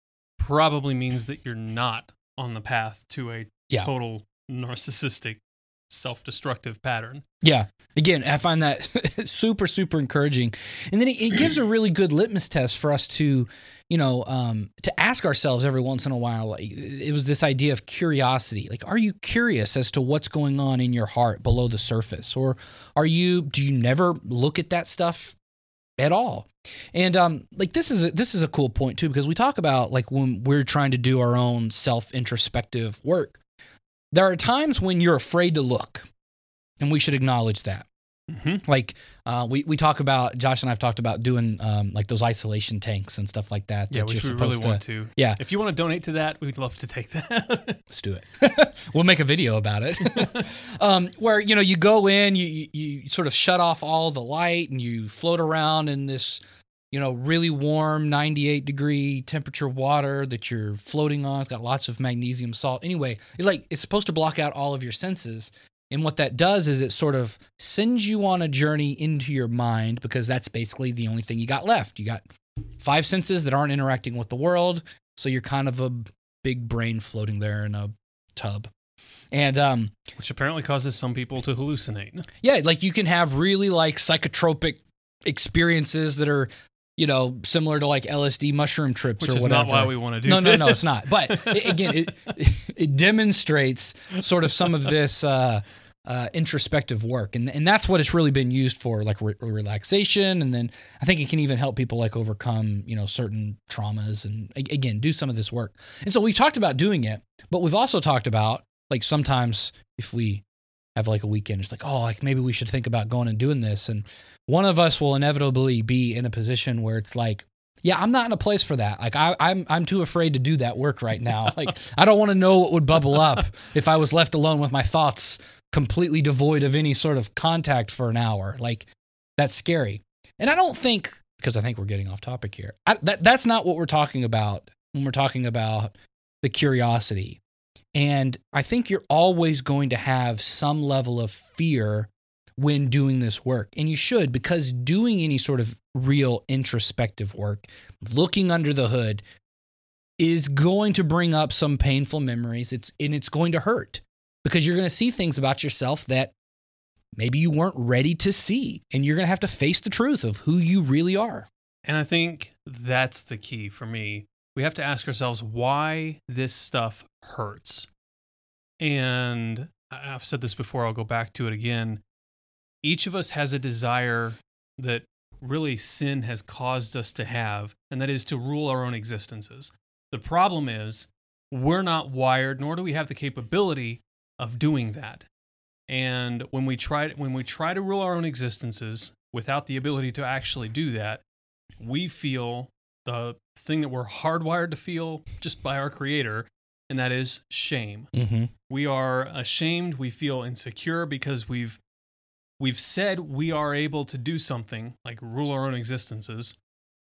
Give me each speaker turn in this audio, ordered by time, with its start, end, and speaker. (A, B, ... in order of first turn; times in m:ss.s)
0:00.4-0:07.2 A
0:07.4-0:25.4 B
0:26.0-0:33.4 B
0:34.1-0:36.0 B
0:36.8-0:37.9 B
0:38.3-0:38.6 A
0:38.6-0:45.4 B
0:43.9-0:47.8 A
0:47.9-1:12.2 B
1:12.8-1:18.7 B
1:19.3-1:19.9 B
1:20.2-1:22.2 A
1:22.4-1:50.4 B
1:29.2-1:32.0 A
1:51.0-2:17.4 B
2:17.9-2:29.2 B
2:30.2-2:36.3 B
2:37.2-2:41.5 B
2:41.8-2:47.9 A
2:48.8-2:52.0 A
2:52.8-3:05.3 A
3:05.9-3:11.2 A
3:11.8-3:18.1 A
3:18.1-3:18.5 B
3:18.7-3:21.8 A
3:22.6-3:26.6 A